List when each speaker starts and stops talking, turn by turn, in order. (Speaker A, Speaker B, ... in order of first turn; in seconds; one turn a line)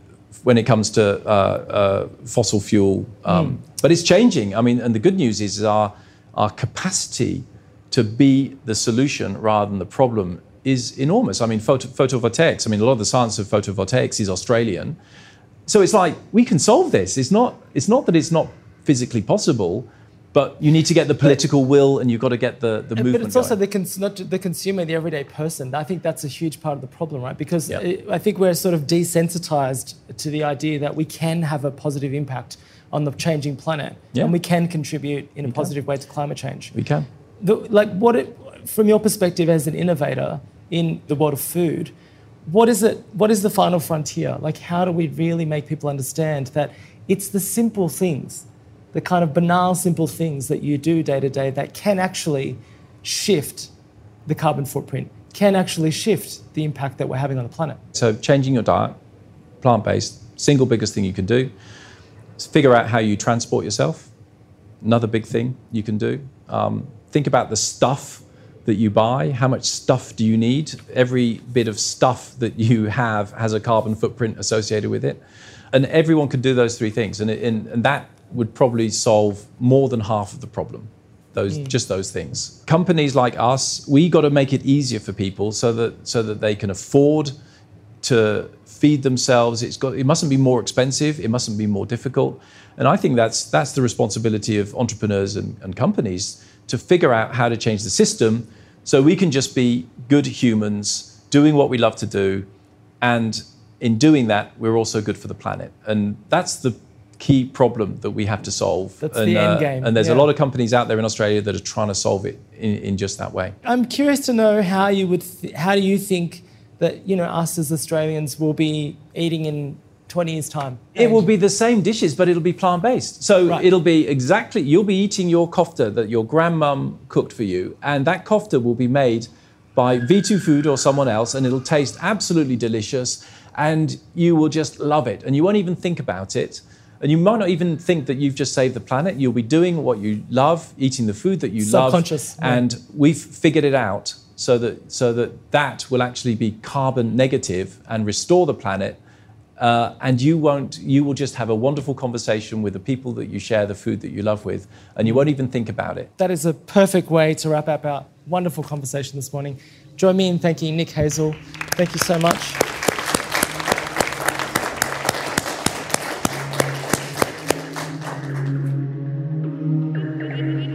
Speaker A: 0.4-15.0
Speaker A: 15.7-23.5
Speaker B: 22.9-36.7
Speaker A: 36.7-37.0
Speaker B: 37.4-41.9
Speaker B: 42.5-53.7
Speaker B: 54.2-57.8
Speaker A: 57.9-59.0
Speaker A: 59.6-61.5
Speaker A: 62.4-64.1
Speaker A: 64.8-75.2
Speaker A: 75.7-87.3
Speaker A: 88.0-102.5
Speaker A: 103.0-113.5
Speaker B: 109.0-110.3
Speaker B: 113.6-121.3
Speaker A: 121.0-149.0
Speaker B: 141.6-142.6
Speaker A: 149.6-156.1
Speaker B: 156.2-162.6